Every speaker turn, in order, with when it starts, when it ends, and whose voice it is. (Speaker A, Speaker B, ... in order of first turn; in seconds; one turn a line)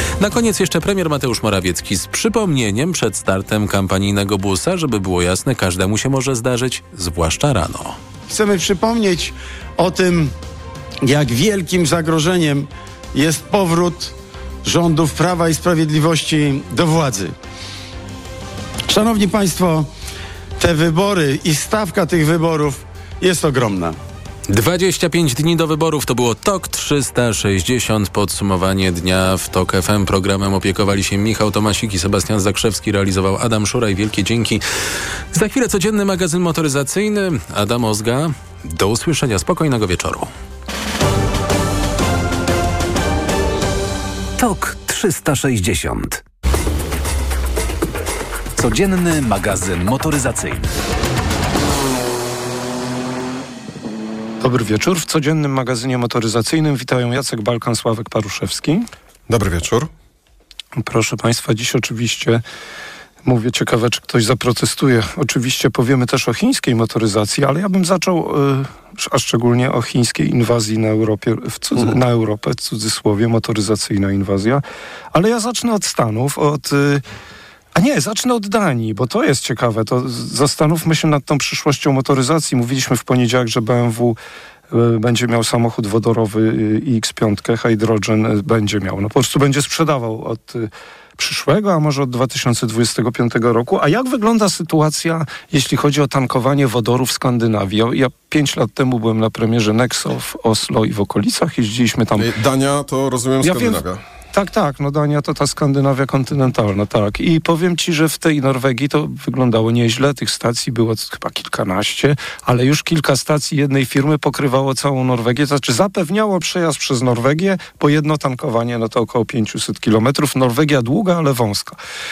Speaker A: 0.2-8.0
Speaker B: 8.3-10.3
Speaker B: 11.0-17.3
Speaker B: 18.9-19.9
Speaker B: 20.6-24.0
Speaker A: 24.5-34.6
Speaker A: 35.3-40.3
Speaker C: 44.4-46.2
Speaker C: 48.6-50.7
Speaker D: 54.4-58.9
Speaker E: 59.3-59.9
Speaker D: 60.8-62.4
Speaker D: 63.2-77.0
Speaker D: 77.7-84.2
Speaker D: 84.7-102.3
Speaker E: 102.2-104.0
Speaker D: 103.4-121.8